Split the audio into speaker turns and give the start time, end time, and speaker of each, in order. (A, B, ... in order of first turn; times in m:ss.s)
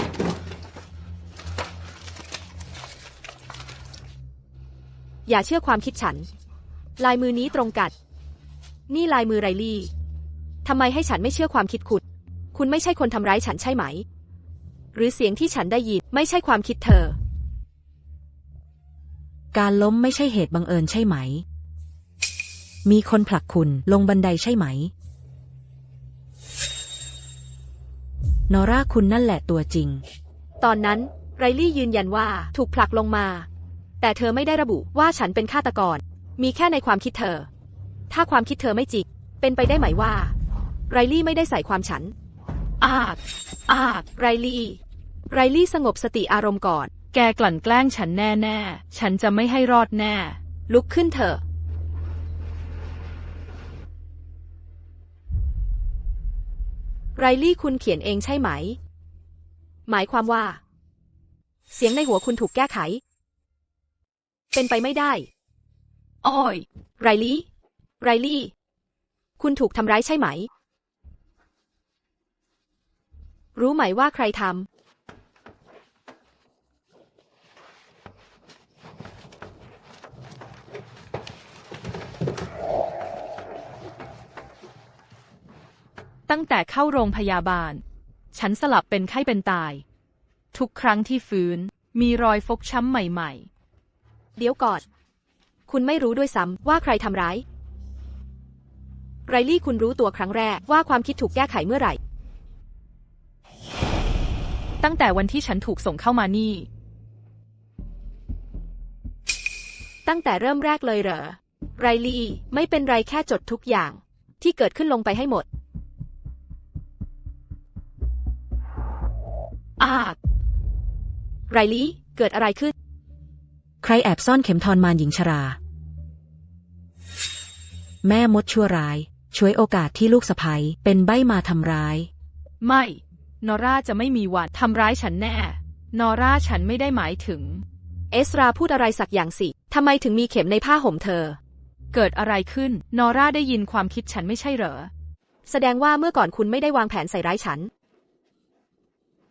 0:05.3-0:06.3 A
0:07.0-0:07.9 A
0:08.9-0:09.9 A
0:10.6-0:12.0 A
0:12.5-0:14.0 A
0:14.9-0:17.2 A
0:19.5-0:21.4 B
0:22.8-0:24.9 B
0:28.5-0:30.0 B
0:30.6-0:33.5 A
0:34.0-0:37.5 A
0:38.1-0:40.3 A
0:40.9-0:42.1 A
0:42.8-0:44.1 C
0:44.2-0:44.8 A
0:45.3-0:46.9 A
0:47.1-0:50.4 C
0:50.7-0:51.4 A
0:57.2-0:58.8 A
0:59.9-1:00.6 A
1:01.7-1:03.0 A
1:04.5-1:05.3 A
1:06.2-1:06.7 C
1:07.0-1:07.5 A
1:08.0-1:08.5 A
1:09.4-1:10.5 A
1:13.6-1:14.7 A
1:26.3-1:27.8 C
1:28.3-1:29.8 C
1:30.5-1:33.5 C
1:34.4-1:34.8 A
1:35.7-1:37.4 A
1:39.3-1:42.0 A
1:44.8-1:46.7 C
1:50.1-1:55.4 A
1:59.8-2:00.2 C
2:01.5-2:02.7 A
2:03.8-2:05.6 B
2:08.0-2:12.1 B
2:12.6-2:17.6 C
2:18.1-2:21.4 A
2:21.9-2:24.9 C
2:25.5-2:27.7 A